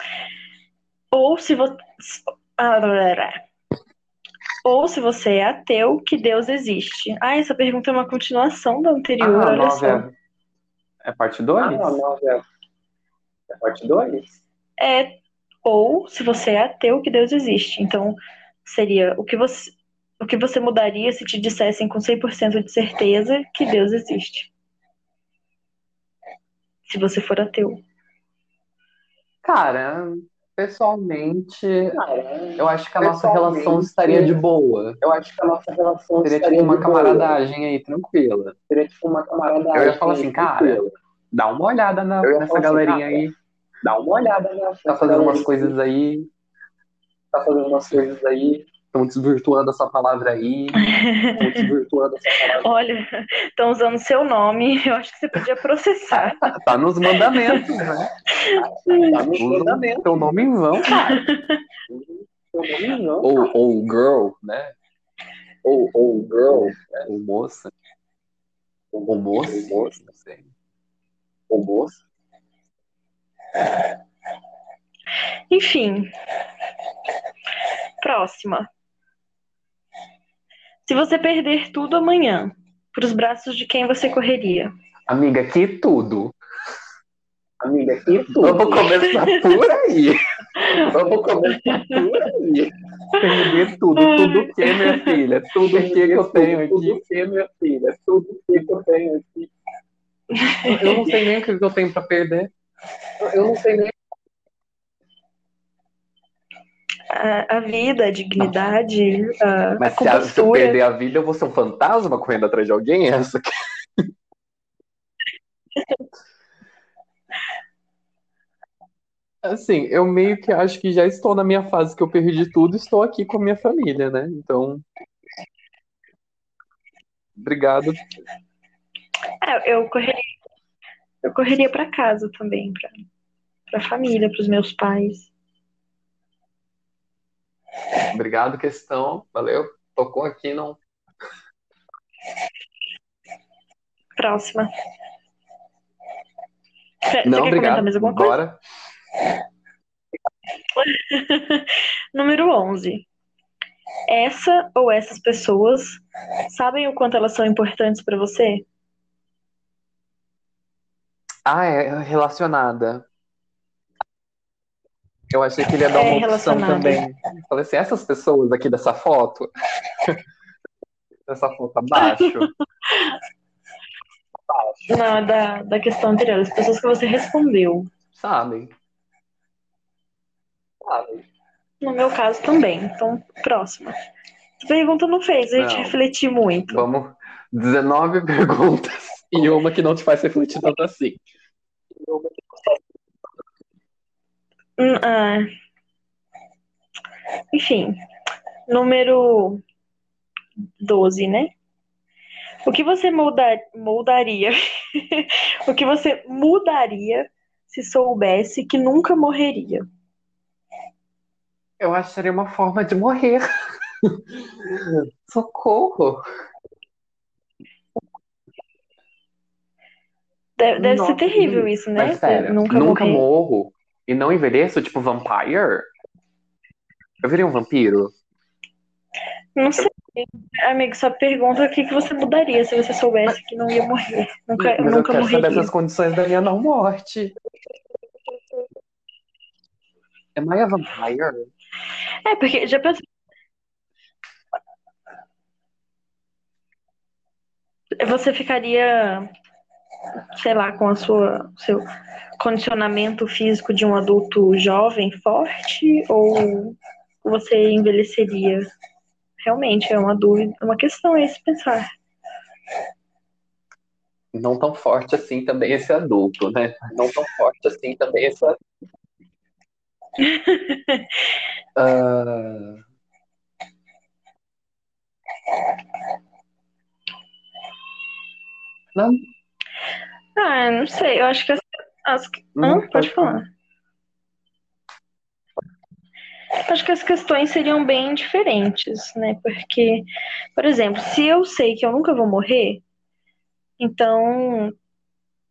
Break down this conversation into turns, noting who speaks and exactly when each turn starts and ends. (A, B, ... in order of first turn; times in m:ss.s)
0:01.1-0:03.4 A
0:04.6-0:10.0 A
0:09.2-0:10.1 B
0:11.0-0:12.0 B
0:11.6-0:12.4 C
0:13.6-0:14.4 C
0:14.8-0:24.5 A
0:26.9-0:27.8 A
0:29.4-0:32.0 B
0:32.0-0:34.4 C
0:32.6-0:35.0 B
0:35.0-0:37.4 C
0:36.2-0:38.6 B
0:38.7-0:40.9 C
0:39.7-0:43.3 B
0:42.2-0:43.2 C
0:43.8-0:45.7 C
0:44.9-0:46.3 B
0:47.3-0:48.6 C
0:48.9-0:50.8 B
0:50.8-0:51.7 A
0:51.4-0:52.7 C
0:52.5-0:56.4 A
0:56.1-0:58.1 B
0:57.1-0:57.7 A
0:58.4-0:59.2 A
0:58.9-1:00.3 C
0:59.3-1:01.2 B
1:00.9-1:01.6 A
1:01.9-1:03.3 C
1:03.2-1:04.7 B
1:05.6-1:07.0 C
1:07.0-1:07.7 B
1:08.9-1:10.0 C
1:09.1-1:10.5 B
1:11.5-1:12.0 C
1:15.5-1:16.1 A
1:18.0-1:18.7 A
1:20.8-1:24.7 A
1:25.1-1:26.4 B
1:27.6-1:28.9 C
1:28.3-1:30.2 B
1:29.1-1:29.3 A
1:30.6-1:30.9 A
1:30.8-1:32.7 C
1:31.6-1:32.0 A
1:33.2-1:37.0 B
1:34.0-1:35.2 A
1:35.7-1:39.5 C
1:40.4-1:40.9 A
1:40.6-1:42.5 B
1:43.2-1:43.9 C
1:47.1-1:50.8 A
1:49.8-1:53.5 B
1:59.4-2:04.8 B
2:07.4-2:08.0 B
2:09.4-2:10.3 A
2:11.2-2:13.0 A
2:13.7-2:15.3 A
2:18.1-2:20.8 B
2:24.2-2:24.7 A
2:27.1-2:28.4 A
2:27.2-2:28.6 B
2:30.8-2:33.1 A
2:34.1-2:38.6 A
2:41.4-2:43.1 B
2:45.3-2:49.5 B
2:45.9-2:47.0 A
2:51.3-2:52.5 B
2:52.0-2:53.2 A
2:54.9-2:57.9 A
2:58.1-2:58.7 B
3:01.8-3:04.0 A
3:04.6-3:06.9 A
3:05.6-3:06.0 B
3:06.7-3:11.2 B
3:14.8-3:15.5 A
3:17.5-3:18.0 A
3:18.7-3:19.6 A
3:20.8-3:21.5 A
3:22.6-3:29.8 A
3:31.8-3:33.4 B
3:34.0-3:36.2 B
3:40.6-3:43.2 A
3:40.8-3:45.9 B
3:47.2-3:48.1 B
3:49.6-3:55.7 A
3:54.6-3:57.3 B
4:00.4-4:01.5 B
4:02.2-4:03.1 A
4:08.0-4:09.3 A
4:10.4-4:11.9 A
4:12.4-4:18.7 A
4:19.4-4:21.9 A
4:24.3-4:27.1 B
4:26.9-4:28.5 C
4:30.2-4:31.2 A
4:31.8-4:32.8 B
4:38.9-4:39.2 B
4:40.4-4:43.5 A
4:42.6-4:43.4 B
4:46.7-4:52.8 A
4:53.8-4:54.7 A